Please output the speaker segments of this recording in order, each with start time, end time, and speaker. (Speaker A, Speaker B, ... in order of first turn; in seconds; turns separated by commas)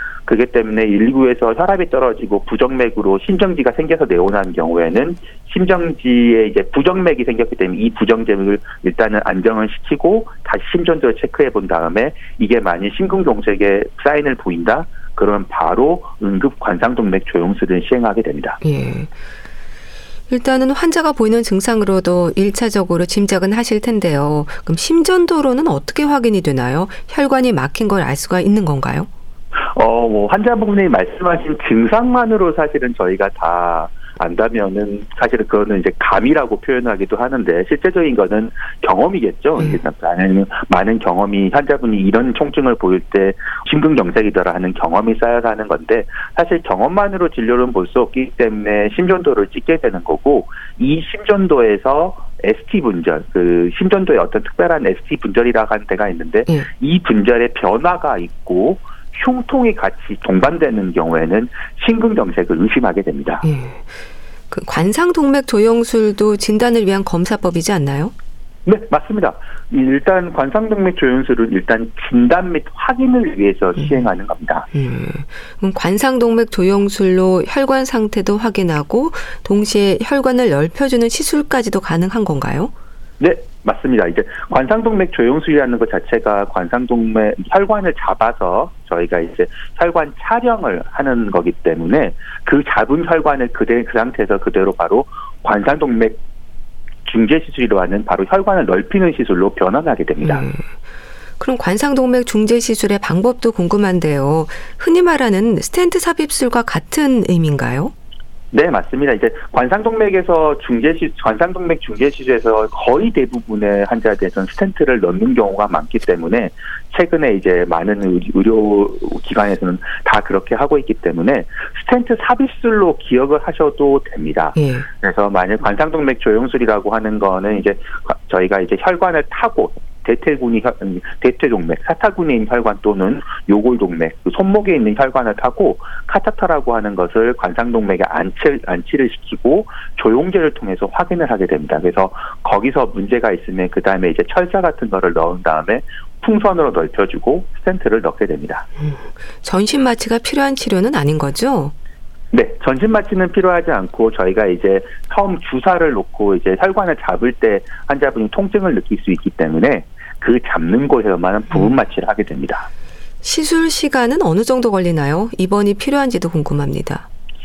Speaker A: 0.3-18.6, Speaker B: 18.6-19.1, Speaker B: 20.3-29.1, Speaker A: 29.7-63.5, Speaker B: 63.4-64.0, Speaker B: 64.5-68.1, Speaker A: 68.7-74.7, Speaker B: 74.7-82.7, Speaker A: 83.2-96.2, Speaker A: 97.1-100.5, Speaker B: 100.2-100.7, Speaker B: 101.4-107.9, Speaker A: 108.5-148.7, Speaker B: 124.6-124.9, Speaker B: 148.8-151.7, Speaker A: 152.3-162.7, Speaker B: 163.2-167.1